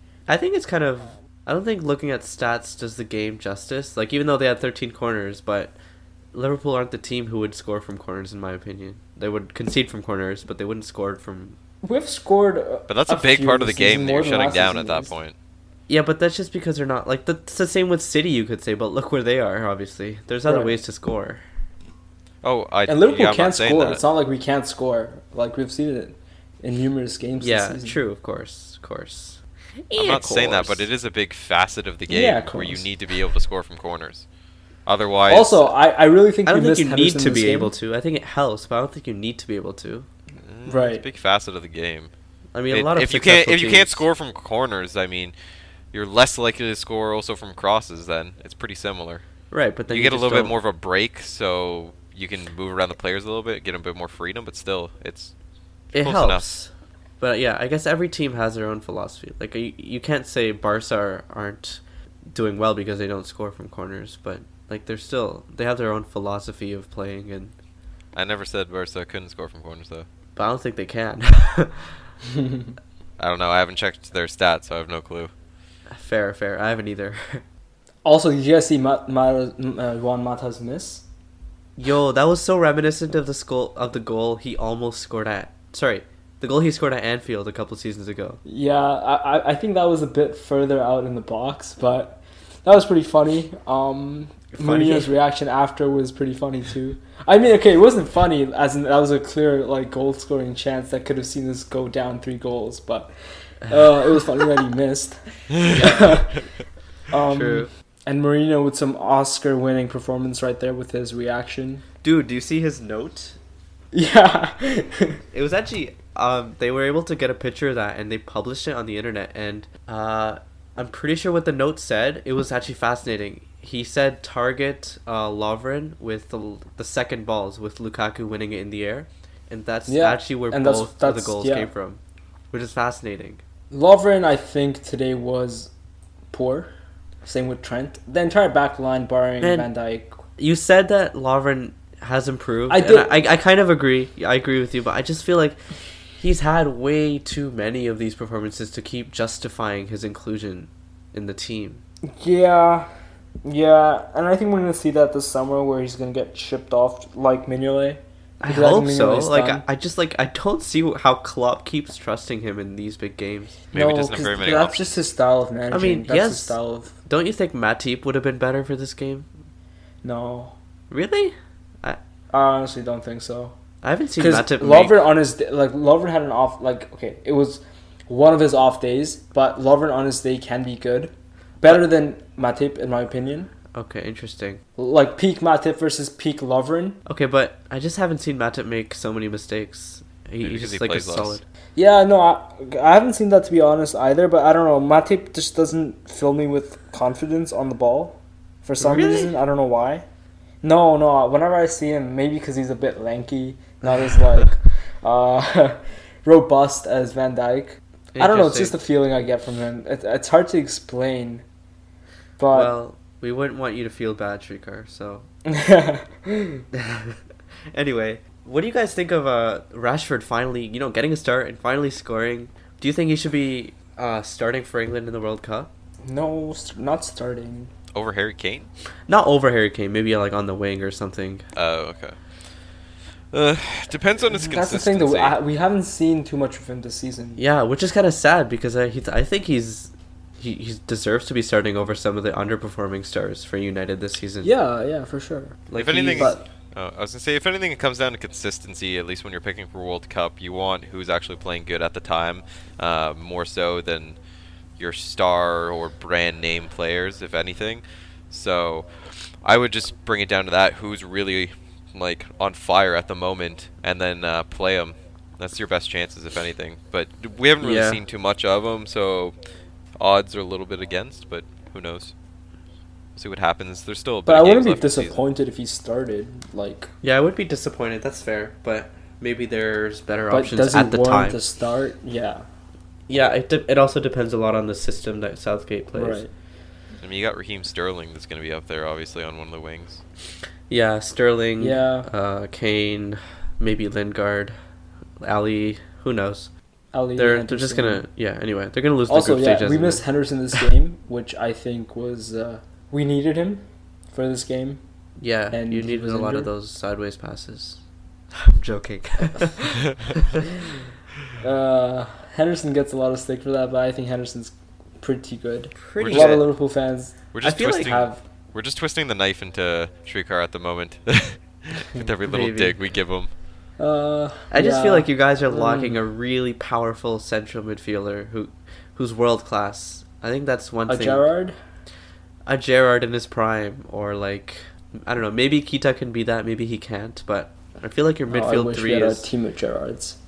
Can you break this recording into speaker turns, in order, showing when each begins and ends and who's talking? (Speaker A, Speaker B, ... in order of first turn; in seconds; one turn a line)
Speaker A: 0.3-5.7
Speaker A: 6.3-11.6
Speaker B: 11.8-15.1
Speaker C: 12.9-15.3
Speaker A: 15.9-21.4
Speaker B: 20.5-20.8
Speaker C: 22.4-24.0
Speaker B: 22.9-28.0
Speaker A: 27.4-30.9
Speaker C: 29.9-34.3
Speaker B: 32.1-32.9
Speaker C: 34.9-35.7
Speaker B: 35.3-37.7
Speaker A: 36.5-40.1
Speaker C: 40.5-42.1
Speaker B: 40.7-41.0
Speaker A: 42.5-44.1
Speaker C: 42.7-45.3
Speaker C: 45.9-49.2
Speaker A: 49.5-50.5
Speaker C: 49.9-55.3
Speaker C: 55.9-56.5
Speaker A: 55.9-67.5
Speaker C: 68.2-70.1
Speaker A: 70.4-72.1
Speaker C: 73.2-75.3
Speaker A: 75.9-77.4
Speaker B: 78.0-81.0
Speaker A: 81.8-88.4
Speaker B: 88.5-103.1
Speaker A: 94.5-95.1
Speaker B: 103.7-106.4
Speaker A: 105.7-106.3
Speaker B: 107.1-111.8
Speaker A: 107.3-107.7
Speaker A: 112.0-113.4
Speaker B: 113.9-115.2
Speaker A: 115.3-132.0
Speaker B: 129.9-131.7
Speaker A: 132.5-133.4
Speaker B: 133.7-135.7
Speaker B: 136.3-136.7
Speaker B: 137.2-140.2
Speaker A: 139.4-139.7
Speaker A: 140.4-145.6
Speaker B: 142.7-143.2
Speaker A: 146.2-151.8
Speaker B: 152.2-152.9
Speaker B: 153.4-159.6
Speaker A: 158.4-163.6
Speaker C: 163.7-164.9
Speaker B: 163.7-166.9
Speaker A: 165.7-169.3
Speaker B: 170.0-170.6
Speaker A: 170.9-172.0
Speaker B: 172.3-173.5
Speaker A: 173.8-175.0
Speaker B: 174.2-183.5
Speaker A: 183.7-184.6
Speaker B: 184.8-187.0
Speaker A: 187.1-191.4
Speaker C: 190.4-191.4
Speaker B: 191.8-200.1
Speaker A: 198.8-199.3
Speaker B: 200.6-211.4
Speaker A: 208.1-208.8
Speaker B: 212.4-212.7
Speaker A: 212.5-215.3
Speaker B: 215.5-216.6
Speaker A: 216.7-217.2
Speaker A: 217.7-225.7
Speaker B: 226.1-227.7
Speaker C: 227.9-228.7
Speaker A: 229.1-231.4
Speaker C: 231.6-232.2
Speaker C: 233.3-235.4
Speaker B: 234.3-237.4
Speaker A: 237.4-244.5
Speaker B: 244.4-246.4
Speaker A: 245.7-246.4
Speaker C: 245.8-254.2
Speaker C: 254.8-258.9
Speaker C: 259.4-269.3
Speaker A: 267.6-268.0
Speaker C: 270.0-272.1
Speaker C: 273.2-275.2
Speaker B: 274.3-276.9
Speaker A: 277.0-281.4
Speaker B: 280.3-282.5
Speaker A: 283.1-286.2
Speaker B: 285.9-286.3
Speaker C: 287.0-290.0
Speaker A: 290.7-294.6
Speaker B: 291.6-292.1
Speaker A: 295.2-296.5
Speaker B: 296.9-298.0
Speaker A: 297.2-300.0
Speaker B: 299.1-304.8
Speaker A: 305.2-307.8
Speaker B: 305.5-306.5
Speaker A: 308.3-310.4
Speaker B: 311.4-318.2
Speaker A: 315.8-316.5
Speaker C: 316.0-316.4
Speaker C: 317.3-323.3
Speaker A: 317.4-318.0
Speaker A: 322.2-322.8
Speaker B: 323.8-326.0
Speaker A: 324.5-331.3
Speaker B: 330.9-331.6
Speaker A: 332.5-339.3
Speaker B: 338.3-340.2